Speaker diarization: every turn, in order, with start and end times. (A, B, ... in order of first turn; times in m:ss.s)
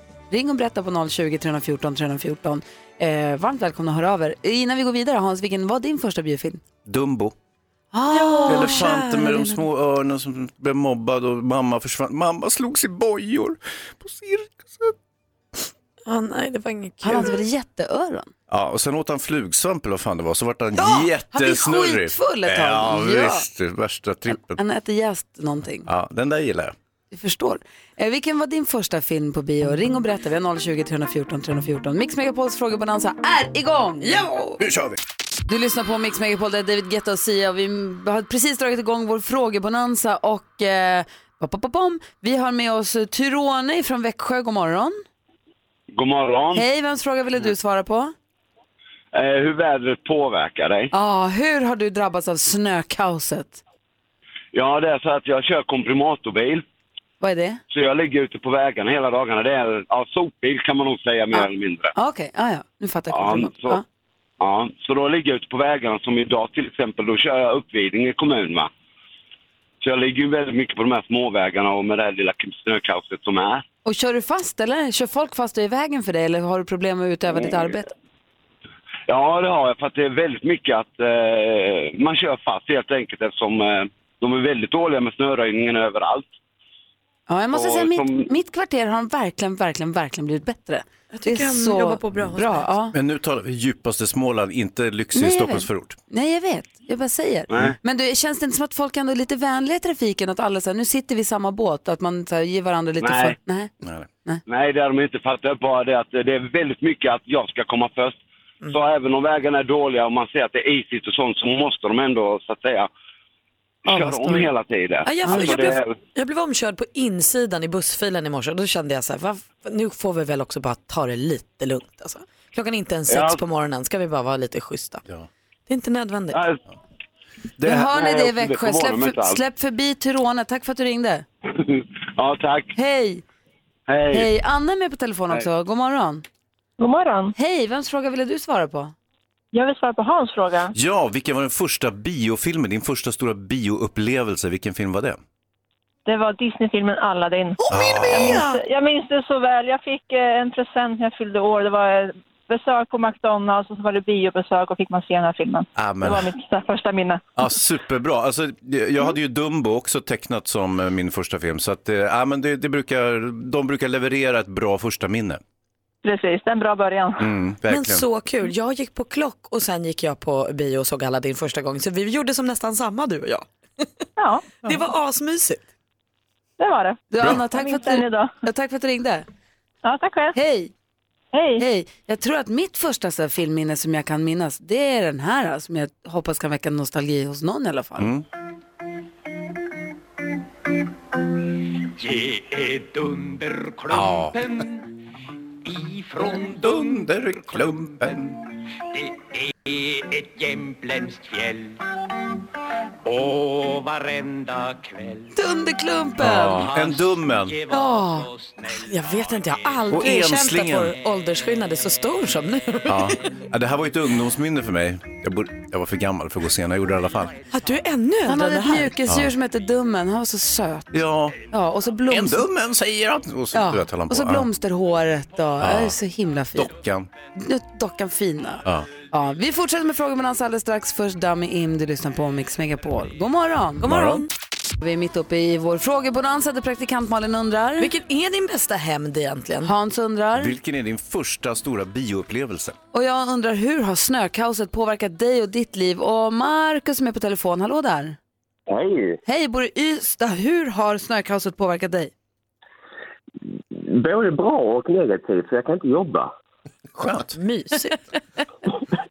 0:00.3-0:06.6 A
0:06.8-0:07.3 B
0:07.9-0:09.1 A
0:08.1-0:09.5 C
0:08.5-0:14.9 B
0:16.1-0:17.4 C
0:17.0-0:18.3 A
0:18.5-0:24.6 B
0:20.8-0:23.5 A
0:24.3-0:25.9 A
0:25.9-0:26.8 B
0:27.1-0:34.6 A
0:34.6-0:35.0 B
0:35.5-0:45.0 A
0:45.9-0:46.6 D
0:46.5-0:48.1 A
0:49.1-0:50.9 D
0:50.9-0:53.6 A
0:54.5-0:56.6 D
0:57.2-0:57.6 A
0:57.7-1:01.9 D
1:02.0-1:03.8 A
1:03.1-1:03.8 D
1:04.4-1:08.7 D
1:09.8-1:13.6 D
1:13.8-1:17.9 A
1:19.1-1:26.3 D
1:27.3-1:33.0 A
1:27.5-1:28.3 D
1:31.1-1:32.7 C
1:32.9-1:36.0 B
1:35.1-1:43.7 A
1:37.5-1:37.8 D
1:43.0-1:43.4 D
1:44.5-1:48.2 D
1:48.7-1:52.9 D
1:53.8-1:56.0 D
1:53.9-1:54.5 A
1:55.0-2:05.0 C
1:55.2-1:55.7 A
2:03.1-2:03.4 D
2:05.7-2:06.4 C
2:06.3-2:06.6 D
2:07.6-2:09.4 D
2:07.6-2:11.2 A
2:11.6-2:12.7 D
2:12.8-2:13.2 A
2:13.9-2:14.3 D
2:14.1-2:16.2 A
2:16.8-2:17.3 E
2:17.4-2:18.9 A
2:19.5-2:20.7 E
2:20.7-2:25.2 B
2:26.1-2:37.2 E
2:27.7-2:28.4 B
2:27.7-2:28.6 C
2:35.8-2:36.3 B
2:37.4-2:45.4 B
2:46.0-2:47.3 E
2:47.2-2:48.0 B
2:47.7-2:53.8 C
2:54.2-2:54.5 E
2:54.6-2:55.6 C
2:56.6-2:58.3 E
2:57.1-2:59.3 A
2:59.8-3:00.4 E
3:00.4-3:00.7 A
3:01.3-3:01.6 E
3:01.6-3:08.1 A
3:08.0-3:08.2 B
3:12.0-3:14.9 F
3:13.9-3:14.4 B
3:15.6-3:18.2 F
3:16.4-3:18.4 B
3:18.9-3:21.8 F
3:23.0-3:25.3 F
3:25.4-3:26.7 A
3:26.2-3:27.6 B
3:26.7-3:29.6 F
3:27.7-3:28.3 A
3:28.7-3:33.2 C
3:29.9-3:30.9 B
3:32.9-3:37.3 B
3:37.5-3:39.0 C
3:38.3-3:40.9 A
3:40.9-3:41.4 B
3:41.5-3:42.5 A
3:42.1-3:44.5 B
3:43.5-3:46.7 A
3:45.6-3:46.0 B
3:46.6-3:47.1 B
3:47.4-3:53.8 A
3:53.8-3:54.3 C
3:53.8-3:54.3 B
3:54.8-3:57.9 A
3:57.8-3:59.7 C
3:59.6-4:00.6 A
4:00.4-4:02.8 B
4:02.9-4:08.2 A
4:08.7-4:09.2 G
4:09.3-4:12.1 A
4:13.7-4:16.3 G
4:17.0-4:17.4 B
4:17.4-4:18.0 C